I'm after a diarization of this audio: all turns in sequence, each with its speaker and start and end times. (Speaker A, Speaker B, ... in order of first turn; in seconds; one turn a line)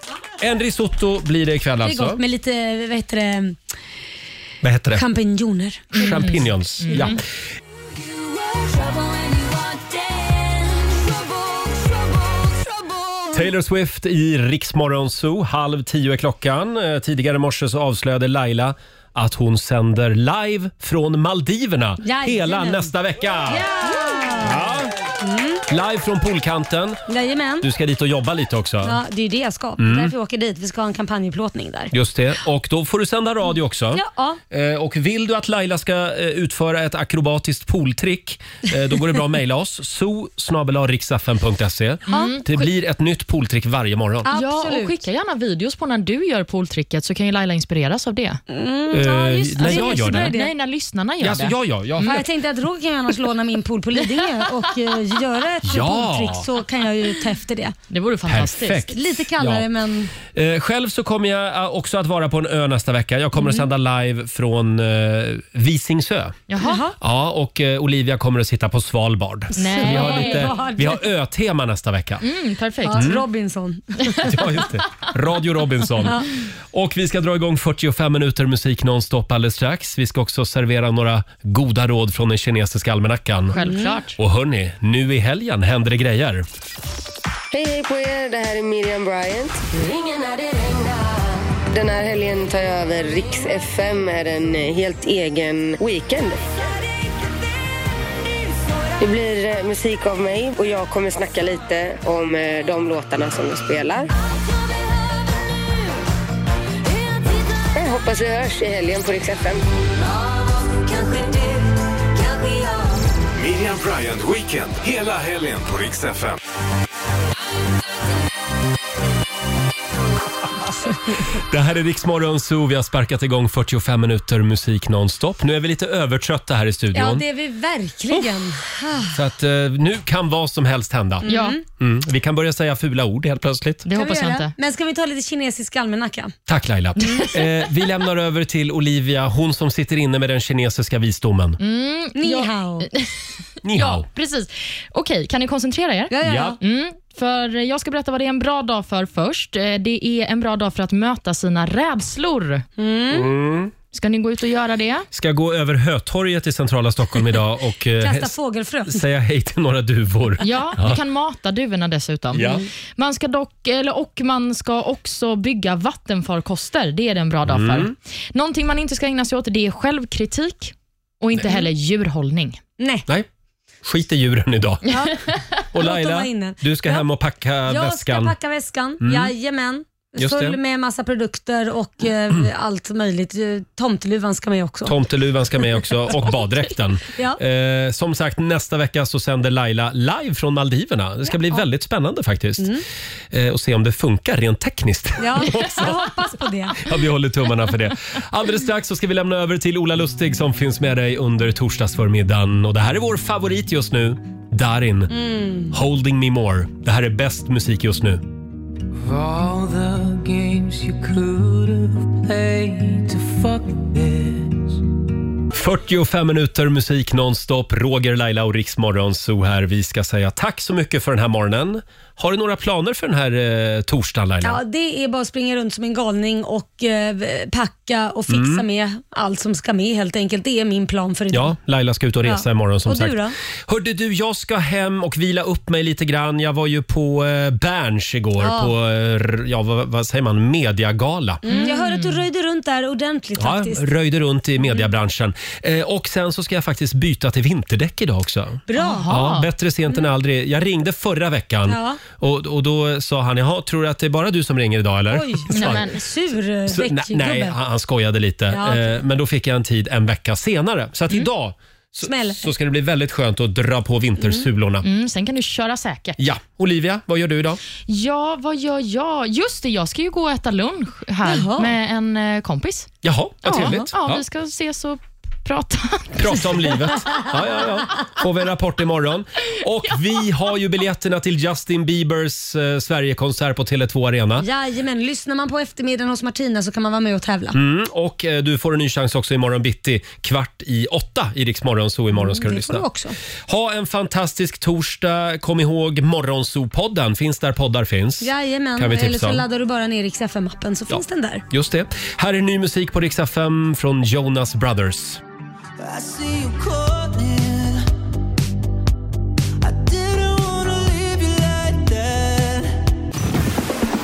Speaker A: 0.4-2.2
Speaker B: 1.8-3.6
Speaker A: 4.6-5.0
Speaker B: 4.9-6.2
Speaker C: 5.9-7.2
Speaker A: 5.9-7.2
Speaker B: 6.9-7.2
Speaker B: 8.6-11.1
Speaker A: 13.3-23.7
Speaker B: 22.0-22.9
Speaker B: 23.5-24.7
Speaker A: 24.4-24.9
Speaker B: 25.2-25.6
Speaker A: 25.7-27.0
Speaker B: 27.1-27.7
Speaker A: 27.6-29.0
Speaker B: 28.8-31.9
Speaker A: 29.8-30.1
Speaker A: 31.9-44.3
Speaker B: 33.9-34.4
Speaker B: 42.1-42.3
Speaker C: 42.1-42.7
Speaker B: 44.2-45.0
Speaker C: 44.3-48.4
Speaker B: 48.5-50.5
Speaker A: 48.9-50.4
Speaker C: 49.6-52.2
Speaker A: 51.2-52.3
Speaker B: 52.0-57.8
Speaker A: 55.6-56.5
Speaker C: 57.9-58.9
Speaker A: 58.3-59.7
Speaker B: 58.9-60.1
Speaker A: 60.3-66.4
Speaker C: 66.5-66.8
Speaker B: 66.6-67.0
Speaker A: 67.0-72.2
Speaker C: 69.5-70.5
Speaker B: 69.6-71.0
Speaker C: 72.2-73.1
Speaker B: 72.8-74.6
Speaker A: 72.9-73.2
Speaker A: 74.2-83.6
Speaker C: 83.5-84.2
Speaker B: 83.6-84.0
Speaker A: 84.2-86.5
Speaker D: 87.5-96.5
Speaker D: 99.0-104.1
Speaker D: 107.7-109.6
Speaker E: 110.6-111.3
Speaker F: 113.3-116.3
Speaker A: 121.3-127.2
Speaker B: 126.9-129.2
Speaker A: 129.1-133.8
Speaker B: 131.2-131.6
Speaker C: 131.3-131.6
Speaker C: 133.8-134.5
Speaker B: 133.9-136.4
Speaker A: 136.5-141.6
Speaker C: 141.6-143.1
Speaker B: 142.2-142.9
Speaker A: 143.6-144.1
Speaker C: 143.7-152.7
Speaker B: 146.1-146.6
Speaker A: 146.2-146.6
Speaker B: 152.8-153.3
Speaker A: 153.1-153.7
Speaker C: 153.9-155.1
Speaker A: 155.1-158.3
Speaker B: 158.0-159.0
Speaker A: 158.9-161.0
Speaker C: 160.4-172.6
Speaker A: 162.3-162.6
Speaker A: 167.4-167.9
Speaker B: 172.8-173.1
Speaker A: 173.8-175.0
Speaker B: 174.9-175.1
Speaker A: 175.7-178.3
Speaker B: 175.7-177.0
Speaker B: 177.7-185.0
Speaker A: 179.0-179.3
Speaker A: 180.2-180.6
Speaker A: 184.8-196.1
Speaker B: 185.7-186.4
Speaker B: 187.1-187.4
Speaker B: 192.6-192.8
Speaker B: 195.2-196.9
Speaker A: 196.7-208.2
Speaker B: 205.1-205.7
Speaker E: 209.0-214.7
Speaker A: 215.5-224.6
Speaker B: 224.4-231.6
Speaker A: 228.3-228.6
Speaker A: 231.3-241.4
Speaker B: 232.2-233.3
Speaker B: 238.4-238.7
Speaker B: 241.4-243.9
Speaker C: 241.5-242.2
Speaker A: 243.3-256.0
Speaker B: 248.7-249.2
Speaker C: 248.8-249.5
Speaker B: 251.7-252.0
Speaker B: 255.1-257.6
Speaker C: 255.5-256.0
Speaker A: 256.6-264.9
Speaker B: 258.5-258.9
Speaker B: 262.0-262.5
Speaker C: 264.8-266.2
Speaker A: 266.2-267.6
Speaker C: 267.9-272.9
Speaker B: 271.2-271.7
Speaker A: 273.0-274.2
Speaker C: 273.4-276.5
Speaker B: 273.5-273.9
Speaker A: 276.1-284.4
Speaker B: 284.4-287.6
Speaker A: 287.5-292.8
Speaker B: 292.1-293.1
Speaker A: 293.5-299.4
Speaker B: 298.2-301.4
Speaker A: 300.9-305.2
Speaker E: 305.8-307.8
Speaker E: 309.6-312.7